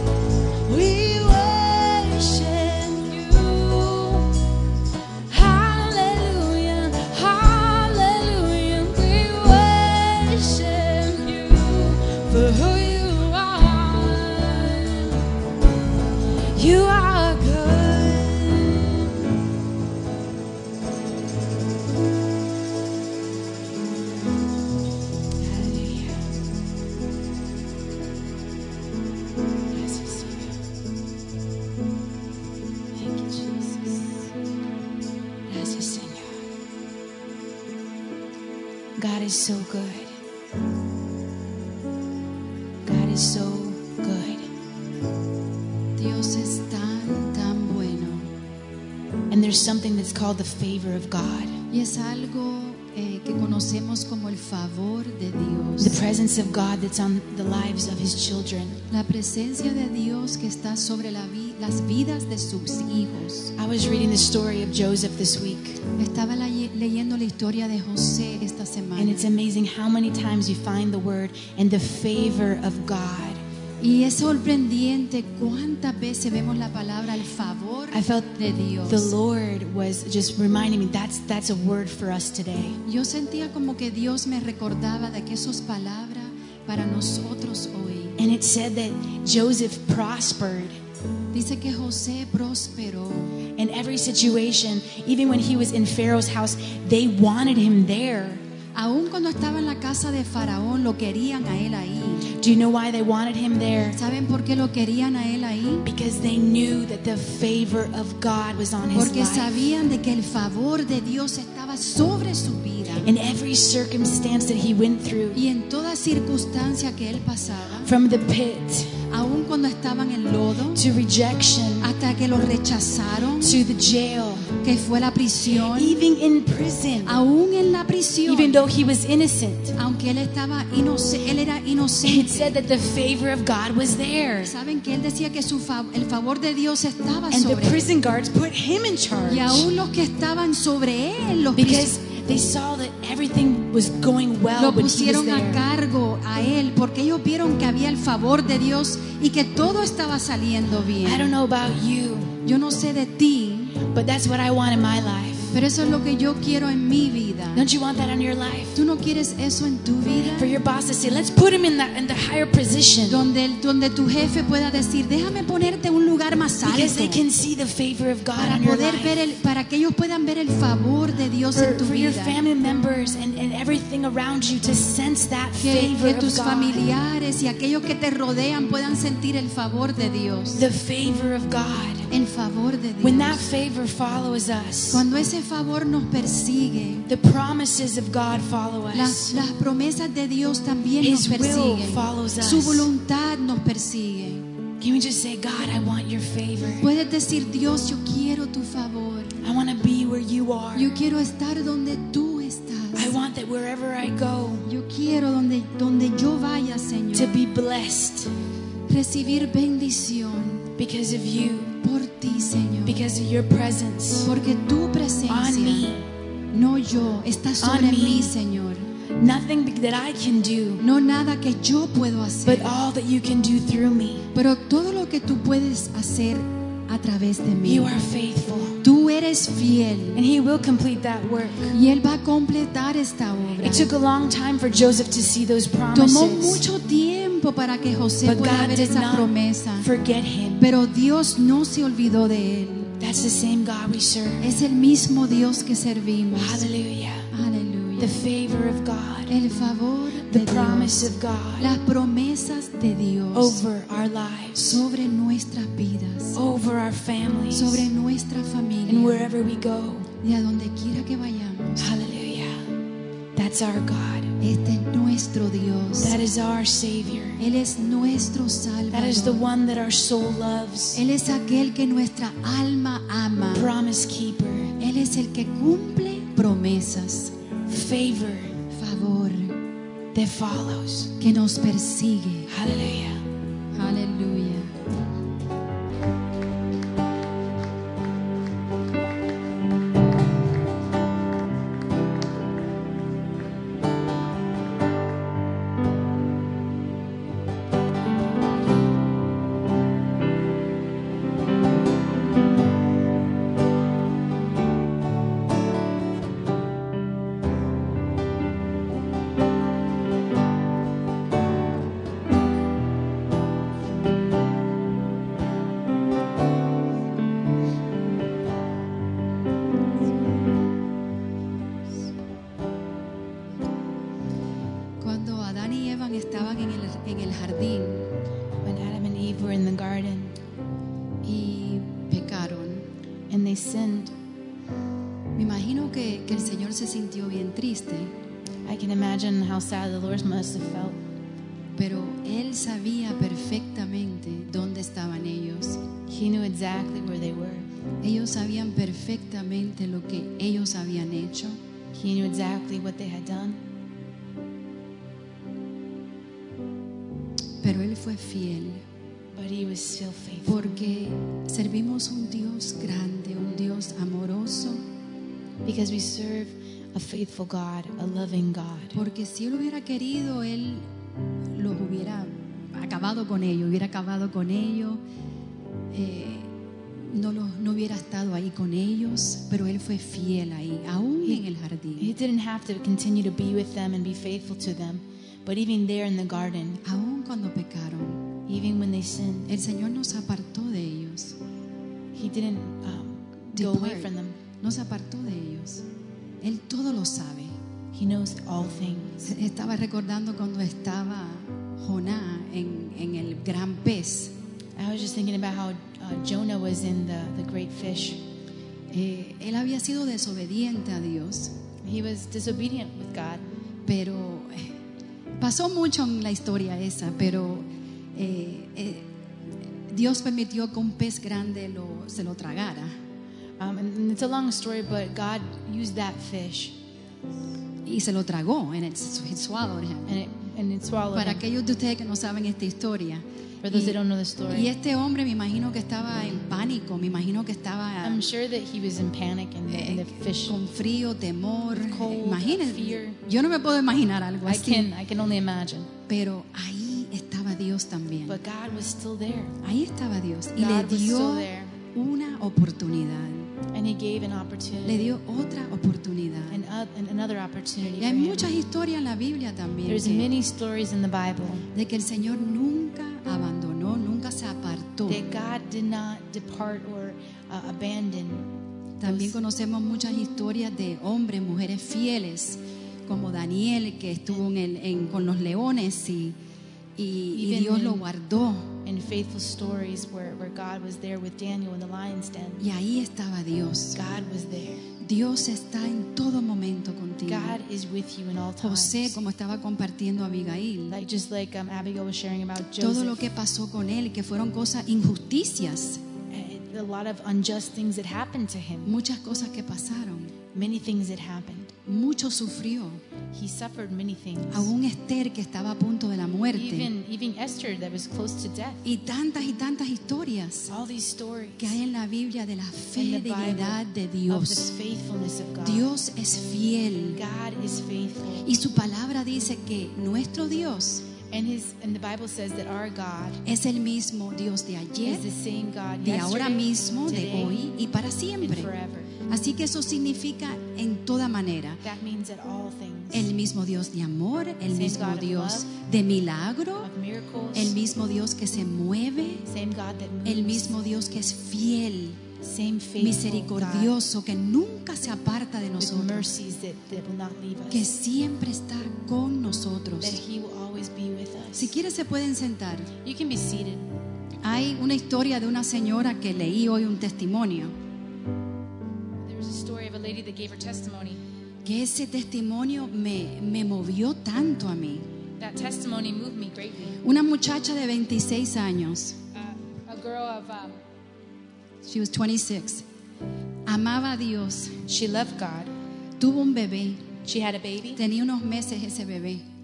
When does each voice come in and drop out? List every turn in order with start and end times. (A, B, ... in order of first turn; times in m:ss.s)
0:00.7-0:04.4 A
0:05.3-0:15.2 A
0:16.4-0:19.2 A
0:25.4-0:26.3 A
0:29.7-0:30.6 A
0:32.9-0:34.3 A
0:35.5-0:36.4 A
0:39.0-0:40.2 A
0:42.8-0:44.5 A
0:46.0-0:48.3 B
0:49.3-0:51.6 A
0:51.7-0:56.0 B
0:55.8-0:58.8 A
0:58.9-1:03.5 B
1:03.6-1:05.8 A
1:06.0-1:09.3 B
1:09.0-1:13.4 A
1:13.8-1:19.1 B
1:17.9-1:22.8 A
1:22.8-1:28.2 B
1:28.2-1:30.8 A
1:31.3-1:33.4 B
1:33.6-1:38.4 A
1:38.8-1:42.3 B
1:42.3-1:44.0 A
1:43.9-1:45.9 B
1:45.8-1:49.8 A
1:48.9-1:53.1 B
1:53.0-1:55.4 A
1:55.3-1:57.9 B
1:57.8-1:59.0 A
1:59.1-2:00.8 B
2:00.7-2:01.9 A
2:01.8-2:03.6 B
2:03.4-2:04.5 A
2:04.6-2:06.0 B
2:05.5-2:07.2 A
2:07.0-2:08.6 B
2:08.3-2:09.8 A
2:09.8-2:12.6 B
2:12.0-2:14.5 A
2:14.4-2:17.8 B
2:17.3-2:19.7 A
2:19.3-2:21.9 B
2:21.6-2:25.6 A
2:24.6-2:31.3 B
2:31.0-2:32.4 A
2:32.4-2:33.8 B
2:33.8-2:35.6 A
2:35.5-2:37.6 B
2:37.5-2:38.8 A
2:38.8-2:40.5 B
2:40.3-2:43.3 A
2:43.1-2:47.2 B
2:46.6-2:49.2 A
2:48.4-2:52.4 B
2:51.5-2:56.9 A
2:55.6-3:00.7 B
3:00.6-3:02.1 A
3:02.1-3:03.4 B
3:03.0-3:05.0 A
3:04.9-3:07.1 B
3:07.1-3:09.5 A
3:08.9-3:14.5 B
3:11.0-3:12.9 A
3:14.8-3:16.9 A
3:16.8-3:19.4 B
3:19.4-3:20.9 A
3:20.8-3:23.2 B
3:23.0-3:24.7 A
3:24.6-3:27.4 B
3:27.1-3:28.3 A
3:28.9-3:30.7 B
3:30.8-3:31.8 A
3:31.8-3:33.0 B
3:32.8-3:34.3 A
3:34.2-3:35.9 B
3:35.3-3:36.1 A
3:36.5-3:38.9 B
3:37.6-3:38.3 A
3:39.2-3:40.8 A
3:40.8-3:42.8 B
3:42.4-3:44.3 A
3:44.3-3:47.9 B
3:47.6-3:48.8 A
3:48.8-3:50.2 B
3:50.2-3:51.8 A
3:51.7-3:53.9 B
3:53.6-3:56.6 A
3:55.9-3:59.9 B
3:58.2-4:00.7 A
4:00.6-4:02.9 B
4:03.0-4:04.5 A
4:04.4-4:06.7 B
4:06.4-4:07.3 A
4:07.3-4:08.2 B
4:08.0-4:09.4 A
4:09.3-4:13.6 B
4:10.3-4:11.7 A
4:13.3-4:14.8 A
4:14.6-4:16.4 B
4:16.4-4:17.9 A
4:17.5-4:19.3 B
4:18.9-4:20.1 A
4:20.2-4:21.9 B
4:21.8-4:22.7 A
4:23.4-4:24.3 A
4:24.4-4:26.2 B
4:26.0-4:27.4 A
4:27.4-4:29.5 B
4:28.9-4:31.0 A
4:30.9-4:33.7 B
4:33.5-4:34.7 A
4:34.8-4:37.4 B
4:37.7-4:38.6 A
4:38.7-4:39.6 B
4:40.1-4:41.1 A
4:41.2-4:42.5 B
4:42.5-4:43.2 A
4:43.7-4:44.7 B
5:25.0-5:28.1 B
5:28.6-5:30.4 A
5:31.2-5:32.9 B
5:33.3-5:34.1 A
5:35.4-5:38.1 B
5:38.7-5:41.0 A
5:41.8-5:45.8 B
5:46.1-5:47.7 A
5:48.0-5:51.6 B
5:51.9-5:53.6 A
5:57.6-5:58.8 B
5:59.3-6:00.7 A
6:00.5-6:04.8 B
6:05.6-6:09.0 A
6:08.9-6:10.9 B
6:11.6-6:15.0 B
6:15.9-6:22.1 B
6:22.0-6:26.8 A
6:26.8-6:28.2 B
6:28.5-6:29.5 A
6:29.5-6:31.4 B
6:32.2-6:34.4 A
6:33.6-6:35.8 B
6:36.4-6:37.6 B
6:37.9-6:39.2 A
6:39.2-6:44.3 B
6:44.8-6:48.2 A
6:48.9-6:51.5 B
6:51.8-6:53.4 A
6:53.9-6:54.8 B
6:55.4-6:59.1 B
6:59.9-7:02.9 B
7:03.6-7:06.8 A
7:07.9-7:10.2 B
7:10.1-7:11.4 A
7:11.1-7:14.0 B
7:13.6-7:14.7 A
7:14.5-7:18.2 B
7:18.0-7:20.6 A
7:19.7-7:24.9 B
7:21.7-7:23.2 A
7:24.4-7:25.9 A
7:26.1-7:28.4 B
7:28.3-7:29.6 A
7:29.6-7:33.5 B
7:30.6-7:31.8 A
7:33.7-7:35.2 A
7:34.8-7:36.6 B
7:36.5-7:38.5 A
7:38.0-7:40.3 B
7:39.9-7:41.7 A
7:41.7-7:45.2 B
7:45.1-7:48.5 A
7:49.0-7:56.4 B
7:49.0-7:49.4 A
7:57.0-7:58.8 B
7:57.3-7:58.1 A
7:58.8-8:02.6 A
8:02.6-8:04.0 B
8:04.0-8:04.8 A
8:05.0-8:07.6 B
8:07.3-8:09.2 A
8:08.6-8:11.0 B
8:10.9-8:13.3 A
8:12.8-8:16.0 B
8:16.3-8:18.9 A
8:18.8-8:20.3 B
8:20.5-8:21.7 A
8:21.8-8:23.0 B
8:23.3-8:24.7 A
8:24.5-8:26.9 B
8:26.5-8:28.8 A
8:28.8-8:30.7 B
8:30.7-8:31.8 A
8:31.6-8:34.7 B
8:33.0-8:35.9 A
8:35.6-8:37.2 B
8:37.2-8:38.5 A
8:38.4-8:41.1 B
8:41.3-8:43.4 A
8:43.4-8:45.3 B
8:45.0-8:47.7 A
8:46.0-8:48.7 B
8:48.4-8:49.1 A
8:49.3-8:51.8 B
8:51.8-8:53.3 A
8:53.1-8:56.9 B
8:54.7-8:55.7 A
8:56.8-8:57.8 A
8:57.5-8:59.4 B
8:59.5-9:00.8 A
9:00.2-9:02.2 B
9:02.4-9:04.0 A
9:03.0-9:06.3 B
9:05.8-9:07.9 A
9:07.7-9:10.2 B
9:10.0-9:11.7 A
9:11.6-9:12.9 B
9:13.0-9:13.8 A
9:14.4-9:17.8 B
9:19.2-9:21.2 A
9:21.6-9:25.0 B
9:25.4-9:27.0 A
9:27.0-9:29.2 B
9:29.3-9:30.8 A
9:31.8-9:32.8 B
9:33.7-9:34.8 B
9:34.9-9:35.7 A
9:36.2-9:37.1 B
9:37.2-9:38.0 A
9:38.0-9:39.4 B